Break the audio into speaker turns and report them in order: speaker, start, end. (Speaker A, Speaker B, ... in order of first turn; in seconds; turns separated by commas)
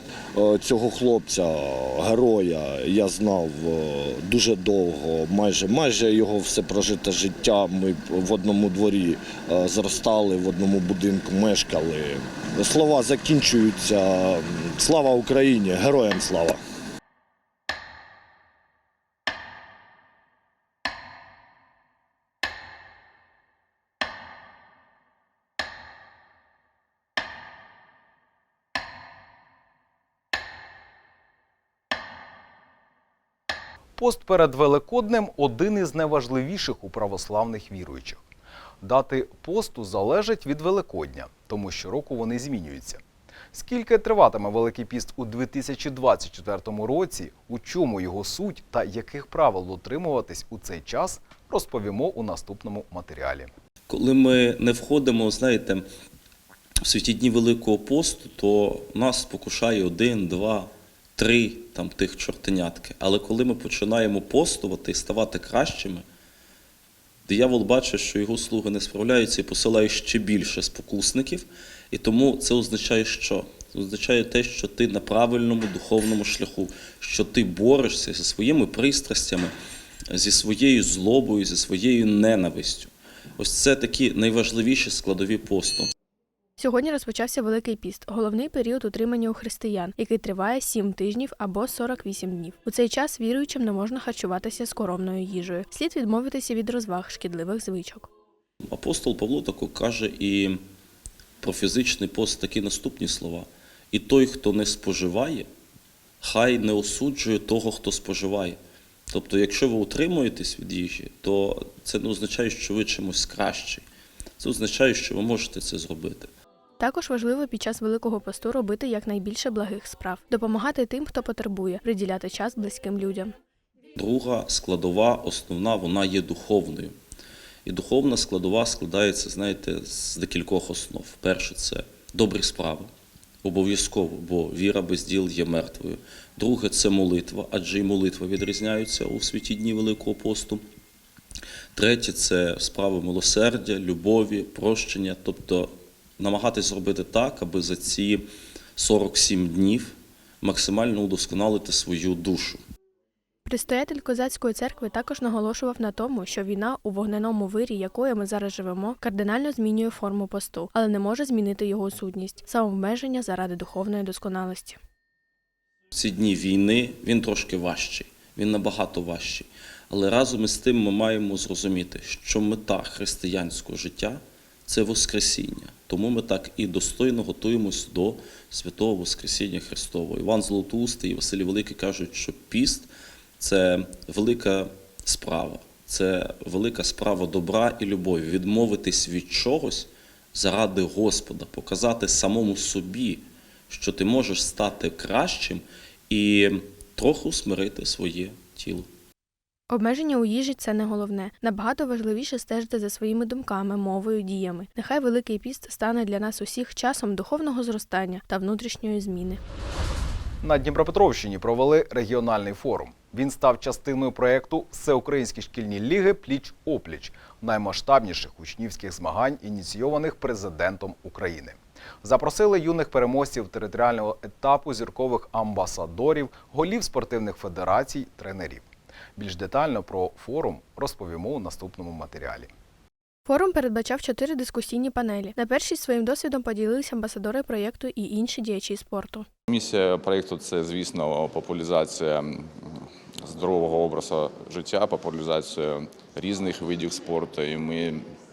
Speaker A: 0.4-16.6, Speaker B: 34.0-38.2, Speaker B: 38.8-43.0, Speaker B: 43.5-53.5, Speaker C: 53.9-55.8, Speaker C: 56.9-66.0, Speaker C: 67.3-79.5, Speaker C: 80.1-85.9, Speaker D: 86.6-98.1, Speaker C: 98.7-100.6, Speaker C: 101.4-105.5, Speaker C: 106.2-108.6, Speaker C: 109.1-113.8, Speaker C: 114.4-116.3, Speaker D: 116.8-123.3, Speaker C: 124.0-126.9, Speaker C: 127.7-132.9, Speaker C: 133.4-140.6, Speaker C: 141.8-148.2, Speaker C: 148.8-152.6, Speaker D: 153.4-164.8, Speaker C: 165.9-182.9, Speaker C: 183.4-198.9, Speaker D: 199.7-209.4, Speaker B: 210.4-228.6, Speaker B: 229.2-232.5, Speaker D: 233.3-239.2, Speaker E: 239.5-242.5, Speaker E: 243.2-248.0